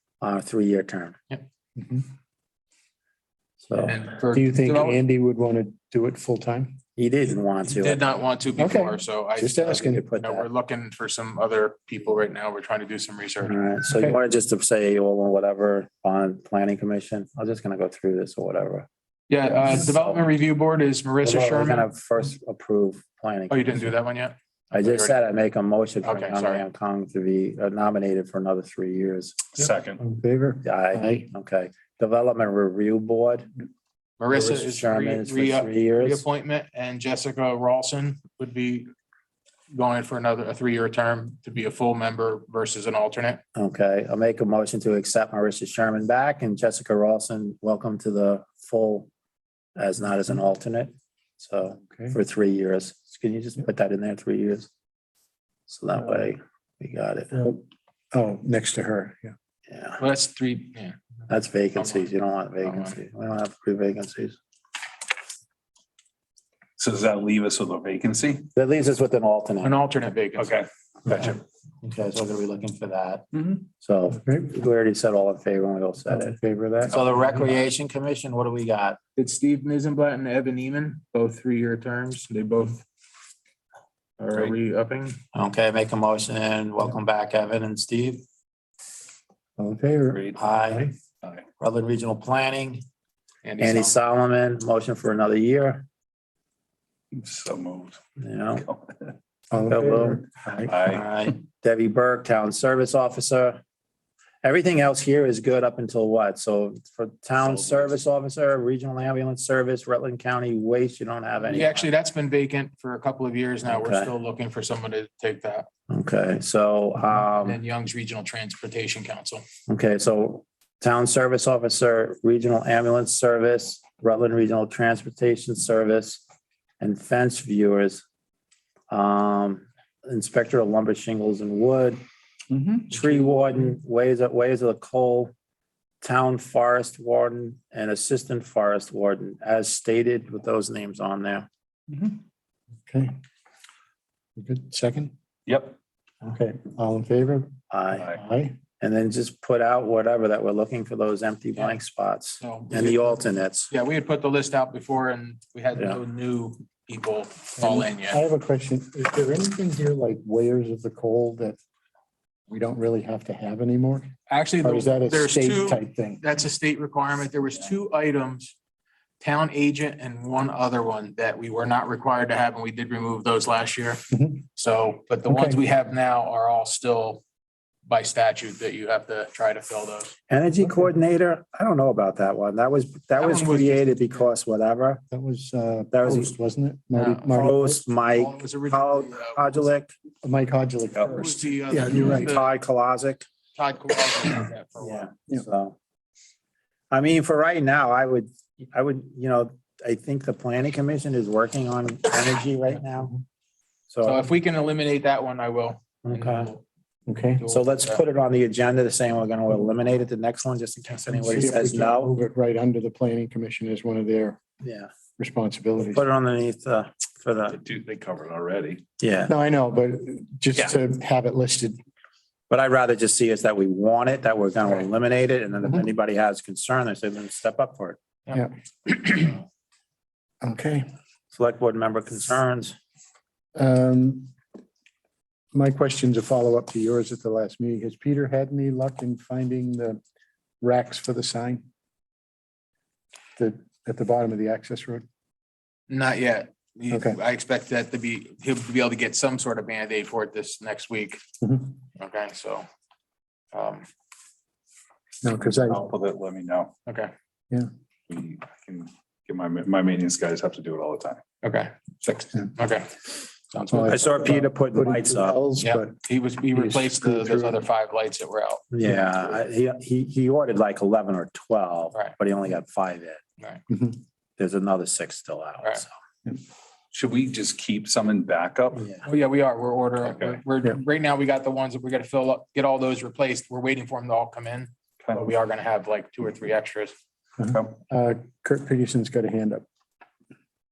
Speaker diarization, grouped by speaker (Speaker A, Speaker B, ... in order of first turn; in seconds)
Speaker A: 0.2-1.1, 3.7-4.0, 7.0-8.0, 9.6-10.5, 13.4-18.9, 21.2-23.6, 24.7-29.4, 30.6-33.5, 34.3-36.2, 43.5-49.1, 49.8-54.7, 55.7-57.4, 59.7-60.0, 61.3-64.4, 68.5-69.7, 71.1-73.2, 73.8-79.0, 85.3-88.2, 90.3-90.9, 91.6-92.8, 93.6-95.8, 98.2-98.6, 99.6-100.2, 100.8-103.6, 104.4-111.9, 113.7-114.1, 115.9-117.6, 119.7-126.2, 126.8-128.0, 128.9-132.0, 132.9-135.3, 136.0-141.5, 147.7-148.1, 148.8-153.7, 180.3-185.0, 185.9-186.3, 187.3-189.9, 192.0-193.2, 194.8-195.8, 196.9-203.2, 203.9-204.3, 206.0-206.5, 207.5-212.1, 214.6-214.9, 215.9-217.6, 219.0-219.3, 222.5-228.0, 231.3-232.8, 263.9-265.4, 268.7-273.2, 274.4-275.9, 278.8-279.1
Speaker B: 1.8-2.1, 4.3-6.8, 8.6-10.1, 13.9-14.2, 30.0-31.3, 57.4-59.3, 74.2-74.5, 76.1-77.0, 89.6-90.9, 99.5-100.8, 142.9-143.1, 144.4-145.1, 146.2-147.5, 148.1-148.6, 157.6-161.6, 162.5-166.2, 174.1-174.4, 175.3-175.6, 185.1-187.8, 190.2-192.3, 207.1-207.4, 211.1-214.4, 215.2-216.0, 219.3-221.8, 228.3-229.4, 230.4-230.9, 233.5-234.3, 235.5-240.0, 240.6-241.6, 243.3-245.0, 246.9-247.2, 251.4-251.8, 255.2-255.8, 263.6-265.9, 266.5-267.6, 273.7-274.0, 287.4-289.6
Speaker C: 3.8-5.0, 7.6-13.6, 19.3-21.9, 23.5-25.1, 26.0-26.6, 34.2-38.9, 39.7-43.4, 60.0-61.0, 61.8-62.9, 69.6-70.6, 79.2-82.8, 84.2-85.2, 93.4-94.0, 111.5-115.7, 117.4-119.4, 152.4-158.2, 164.3-168.5, 169.2-177.2, 177.8-180.1, 183.2-184.1, 186.9-187.3, 188.2-189.7, 191.2-192.5, 193.6-195.1, 204.0-206.6, 207.4-208.0, 245.9-251.2, 251.9-252.7, 253.5-253.9, 256.9-257.1, 261.4-263.9, 265.6-268.6, 279.0-286.9
Speaker D: 29.6-30.0, 66.8-68.5, 70.3-71.4, 73.3-73.6, 90.1-90.3, 97.1-98.0, 98.5-99.1, 100.7-101.1, 107.6-107.9, 132.5-133.0, 145.5-145.8, 147.9-148.2, 190.9-191.2, 217.5-218.8, 255.5-256.7, 258.1-261.2, 276.9-278.8, 280.0-280.4, 287.5-287.7